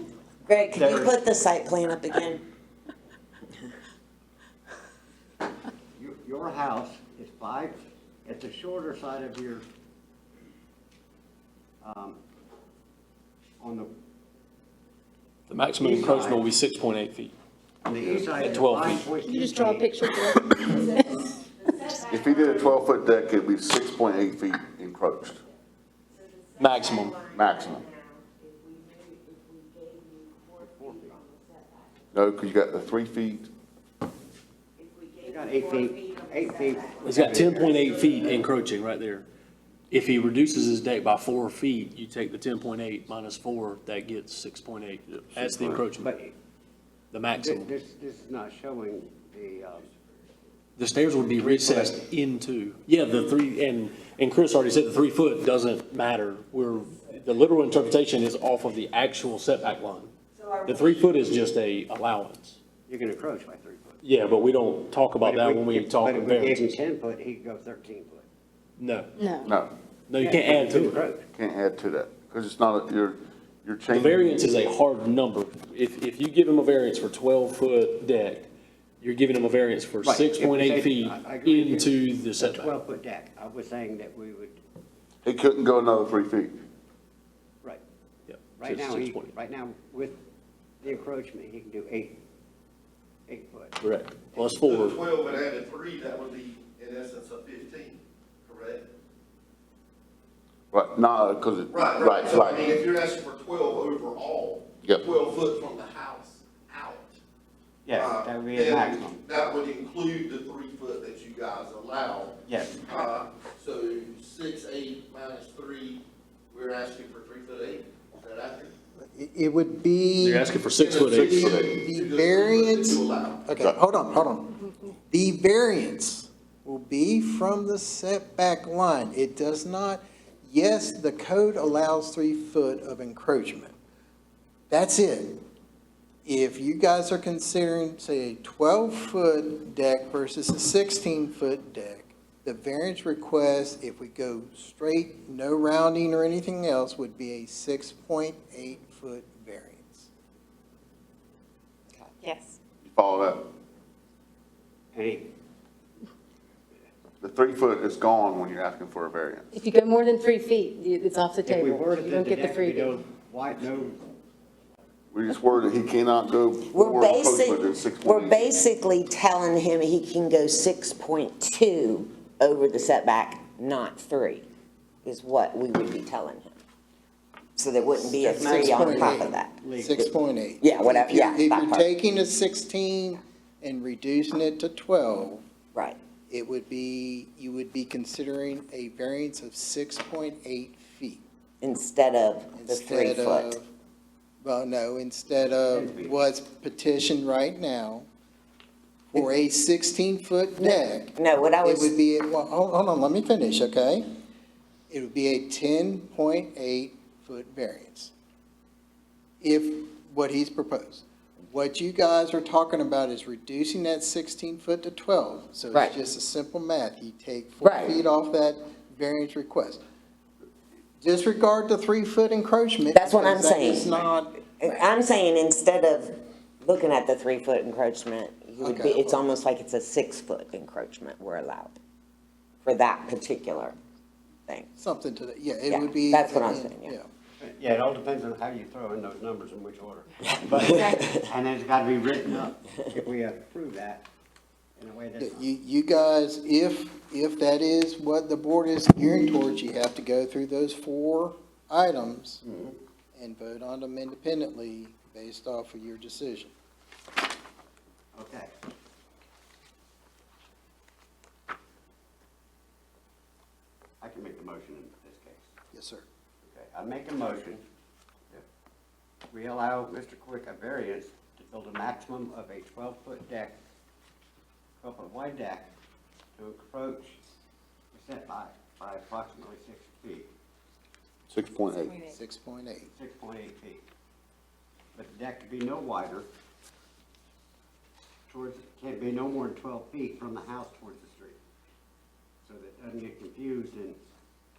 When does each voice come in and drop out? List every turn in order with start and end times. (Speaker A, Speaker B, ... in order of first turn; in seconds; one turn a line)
Speaker A: 0.5-2.4
Speaker B: 0.7-1.1
Speaker B: 5.9-9.6
Speaker B: 11.8-12.2
Speaker B: 13.6-13.9
Speaker C: 15.5-17.3
Speaker B: 15.8-16.4
Speaker B: 17.8-20.3
Speaker D: 18.0-18.3
Speaker C: 18.4-19.1
Speaker E: 19.2-21.3
Speaker D: 21.9-25.4
Speaker A: 26.3-30.5
Speaker C: 26.6-27.3
Speaker D: 27.3-27.8
Speaker B: 30.6-31.2
Speaker A: 31.0-31.6
Speaker D: 32.1-33.5
Speaker A: 34.8-36.9
Speaker B: 35.2-37.9
Speaker C: 37.0-39.3
Speaker C: 39.9-46.1
Speaker B: 46.0-46.3
Speaker C: 47.1-47.7
Speaker B: 47.4-49.9
Speaker C: 50.8-60.1
Speaker B: 51.4-51.9
Speaker C: 60.6-62.6
Speaker B: 62.9-64.0
Speaker C: 64.0-66.7
Speaker B: 65.2-68.2
Speaker C: 68.8-69.1
Speaker E: 69.2-69.5
Speaker D: 69.4-69.7
Speaker C: 70.1-71.0
Speaker B: 70.2-71.2
Speaker D: 71.3-74.5
Speaker C: 73.9-78.5
Speaker C: 79.0-82.7
Speaker B: 80.0-84.6
Speaker D: 85.2-86.6
Speaker C: 88.3-89.3
Speaker B: 88.5-90.2
Speaker B: 90.8-92.2
Speaker B: 93.3-93.7
Speaker C: 93.8-95.0
Speaker F: 94.3-98.8
Speaker D: 100.7-102.8
Speaker F: 101.7-107.2
Speaker B: 107.8-109.2
Speaker F: 107.9-118.7
Speaker B: 112.5-113.0
Speaker G: 119.1-120.5
Speaker C: 120.2-121.5
Speaker F: 120.7-123.6
Speaker D: 121.1-121.7
Speaker G: 121.2-133.7
Speaker G: 134.7-135.4
Speaker G: 136.2-150.1
Speaker E: 152.2-152.6
Speaker D: 152.8-153.5
Speaker B: 154.9-155.3
Speaker D: 157.2-159.5
Speaker E: 159.5-163.0
Speaker B: 161.4-164.0
Speaker D: 165.1-168.6
Speaker A: 166.6-174.4
Speaker A: 175.0-176.6
Speaker A: 177.6-180.1
Speaker B: 178.0-180.0
Speaker G: 178.4-185.4
Speaker A: 180.6-181.8
Speaker G: 186.3-191.2
Speaker A: 191.6-193.5
Speaker G: 192.5-193.7
Speaker G: 194.4-198.1
Speaker B: 195.7-196.2
Speaker G: 199.1-204.0
Speaker A: 200.6-201.9
Speaker G: 204.9-208.1
Speaker G: 209.4-219.8
Speaker A: 217.6-218.0
Speaker G: 221.0-224.4
Speaker A: 222.9-224.0
Speaker A: 224.5-231.8
Speaker G: 228.6-229.3
Speaker A: 232.6-233.8
Speaker G: 234.7-237.1
Speaker A: 235.7-236.9
Speaker B: 237.4-244.1
Speaker A: 240.2-241.3
Speaker E: 240.6-241.0
Speaker B: 244.8-245.4
Speaker G: 245.2-252.4
Speaker B: 252.4-252.8
Speaker G: 253.1-256.5
Speaker B: 258.1-258.5
Speaker B: 264.0-265.5
Speaker G: 265.7-266.0
Speaker B: 266.4-267.6
Speaker B: 269.3-273.6
Speaker B: 274.8-275.7
Speaker B: 276.4-277.2
Speaker B: 277.9-280.3
Speaker D: 281.3-282.0
Speaker E: 281.8-282.1
Speaker G: 282.0-282.9
Speaker B: 282.9-283.8
Speaker B: 284.9-286.3
Speaker B: 288.3-291.4
Speaker B: 292.4-294.0